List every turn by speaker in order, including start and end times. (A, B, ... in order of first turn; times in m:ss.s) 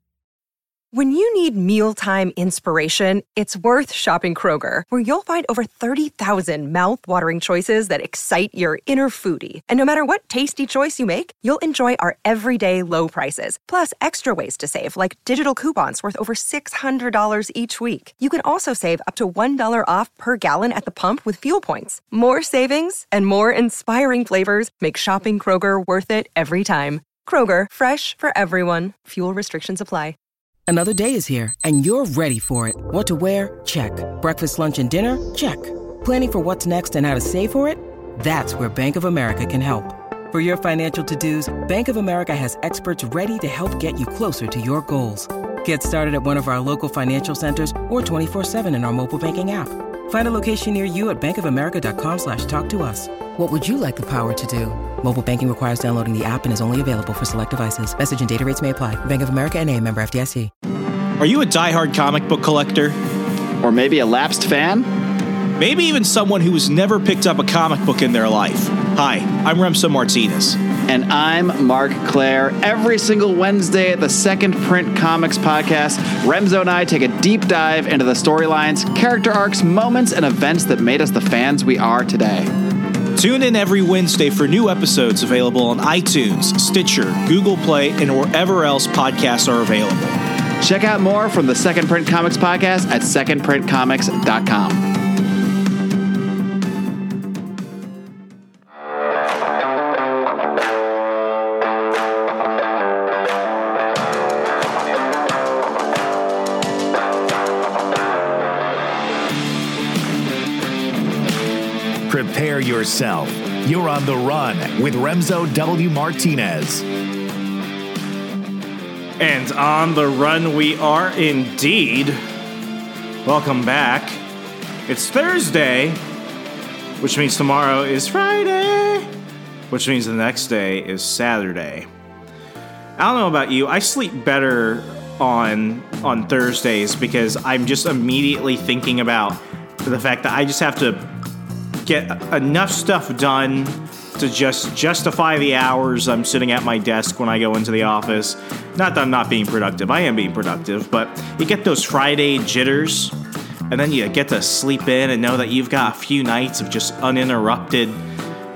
0:00.9-0:30.2 A
0:30.7-1:00.5 B
1:01.2-1:03.0 C
1:03.6-1:04.9 D
1:05.6-1:10.6 C
1:10.9-1:22.5 D
1:23.2-1:30.2 C
1:30.6-1:34.9 D
1:52.1-1:56.9 E
1:59.2-2:02.2 C
2:03.2-2:04.2 C
2:04.9-2:06.0 C
2:07.0-2:09.1 C
2:09.7-2:11.9 C
2:13.0-2:21.1 C
2:21.8-2:33.2 C
2:33.7-2:38.0 C